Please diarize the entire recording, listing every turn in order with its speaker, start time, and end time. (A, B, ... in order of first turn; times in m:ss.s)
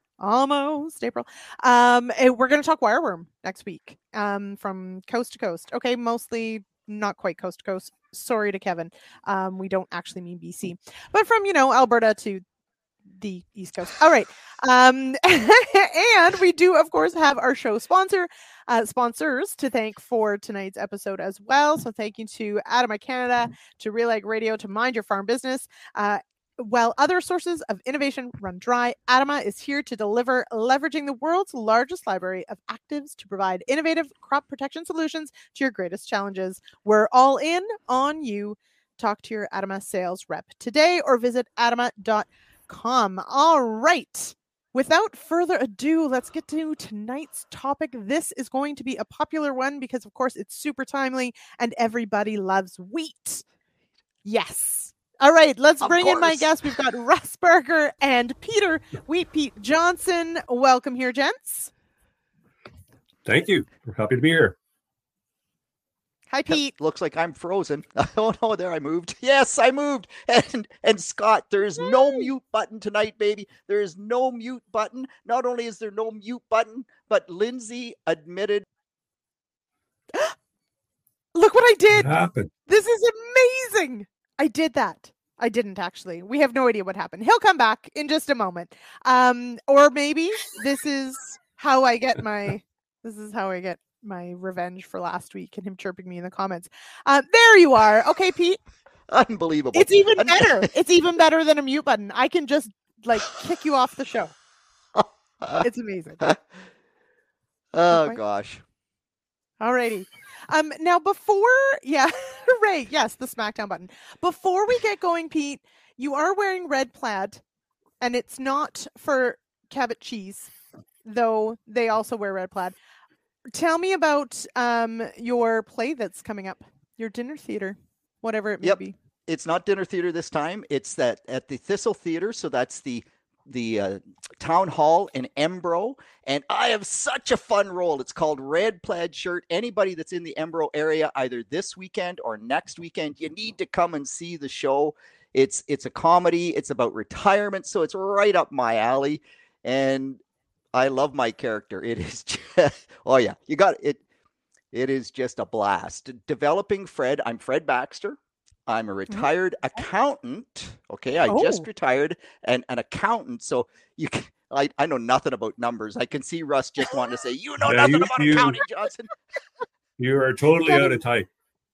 0:00.2-0:12.4 A
0:13.2-0:53.4 A
0:54.2-1:01.7 A
0:55.8-0:56.5 B
1:03.2-1:04.5 C
1:06.3-1:06.7 A
1:06.5-1:18.6 B
1:11.8-1:12.2 A
1:21.3-1:22.1 A
1:21.9-1:22.5 C
1:22.7-1:38.6 A
1:39.1-1:40.7 B
1:39.7-1:44.3 A
1:45.0-1:45.6 B
1:45.6-1:46.4 A
1:47.7-1:48.6 B
1:47.9-1:48.2 A
1:49.6-1:57.4 A
1:58.0-2:00.5 A
2:01.0-2:02.7 A
2:03.5-2:08.9 A
2:08.6-2:30.2 B
2:30.7-2:34.0 B
2:34.7-2:49.1 B
2:41.3-2:41.6 A
2:47.6-2:48.6 C
2:50.0-2:51.3 C
2:50.6-2:51.0 A